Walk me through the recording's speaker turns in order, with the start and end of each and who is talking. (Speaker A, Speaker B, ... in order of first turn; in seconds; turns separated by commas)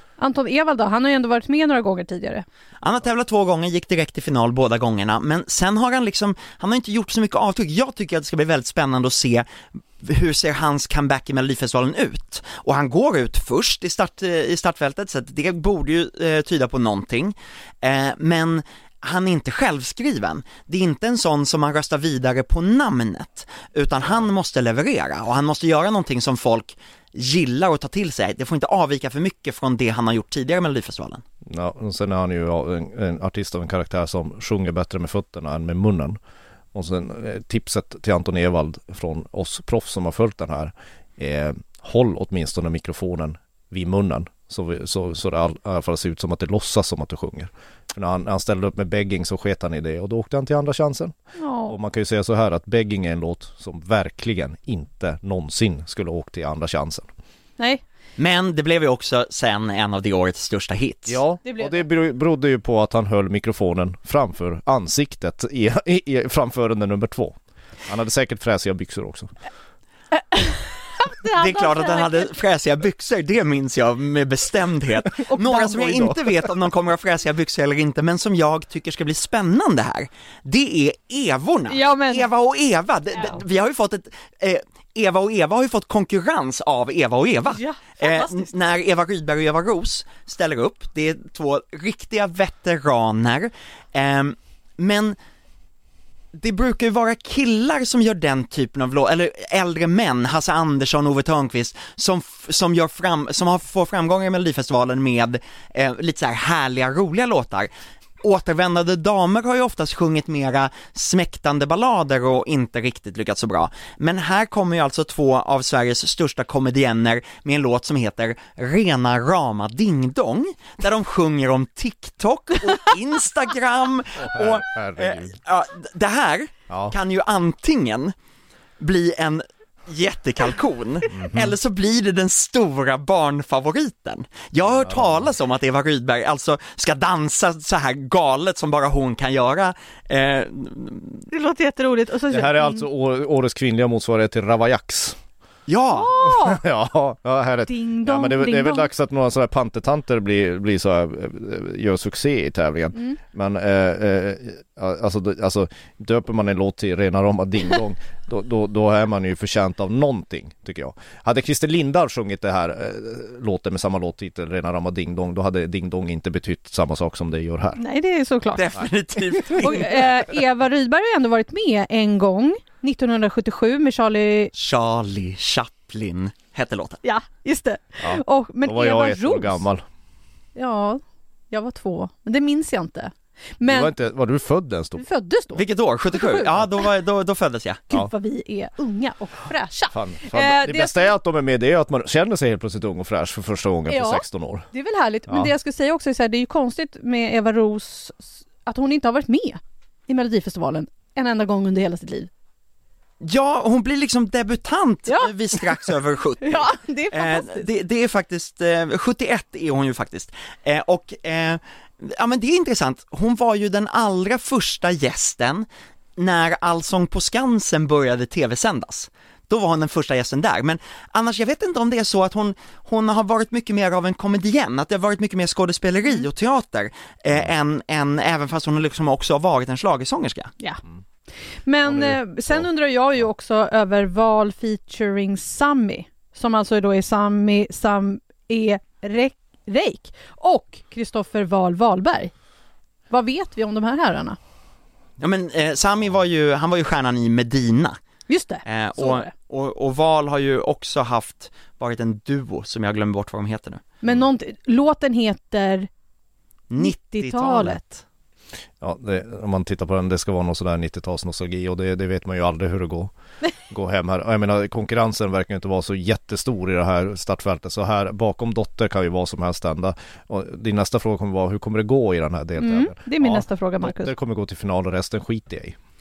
Speaker A: 0.2-2.5, Speaker B: 2.8-9.5, Speaker B: 10.0-31.2, Speaker C: 31.5-36.2, Speaker C: 36.7-51.1, Speaker A: 51.4-51.8, Speaker C: 51.7-57.1, Speaker B: 58.2-61.2, Speaker C: 61.1-69.3, Speaker A: 61.4-61.8, Speaker A: 70.3-72.3, Speaker B: 71.3-95.2, Speaker A: 75.3-76.2, Speaker A: 81.7-82.3, Speaker A: 87.6-88.5, Speaker B: 96.3-107.7, Speaker B: 108.2-128.1, Speaker C: 124.2-125.3, Speaker C: 126.7-127.0, Speaker B: 128.8-141.3, Speaker C: 131.1-131.5, Speaker C: 134.7-135.1, Speaker A: 141.3-142.8, Speaker C: 142.3-145.2, Speaker B: 145.7-146.1, Speaker A: 145.9-146.6, Speaker C: 146.2-167.8, Speaker A: 147.7-148.9, Speaker A: 167.8-168.8, Speaker B: 168.6-170.1, Speaker A: 169.4-174.5, Speaker B: 174.6-177.0, Speaker A: 177.0-179.6, Speaker C: 178.0-179.8, Speaker A: 180.6-183.9, Speaker C: 183.7-185.0, Speaker A: 185.0-186.5, Speaker B: 185.6-187.8, Speaker A: 187.9-191.1, Speaker C: 189.9-194.7, Speaker A: 193.9-202.3, Speaker B: 203.2-230.5, Speaker A: 206.4-207.7, Speaker A: 231.7-242.3, Speaker C: 231.9-232.7, Speaker A: 243.1-244.4, Speaker B: 245.2-248.0, Speaker A: 248.3-249.3, Speaker B: 248.7-253.8, Speaker A: 254.0-255.9, Speaker B: 256.7-257.8, Speaker A: 256.8-257.9, Speaker C: 258.8-263.1, Speaker C: 263.7-275.8, Speaker A: 272.6-274.1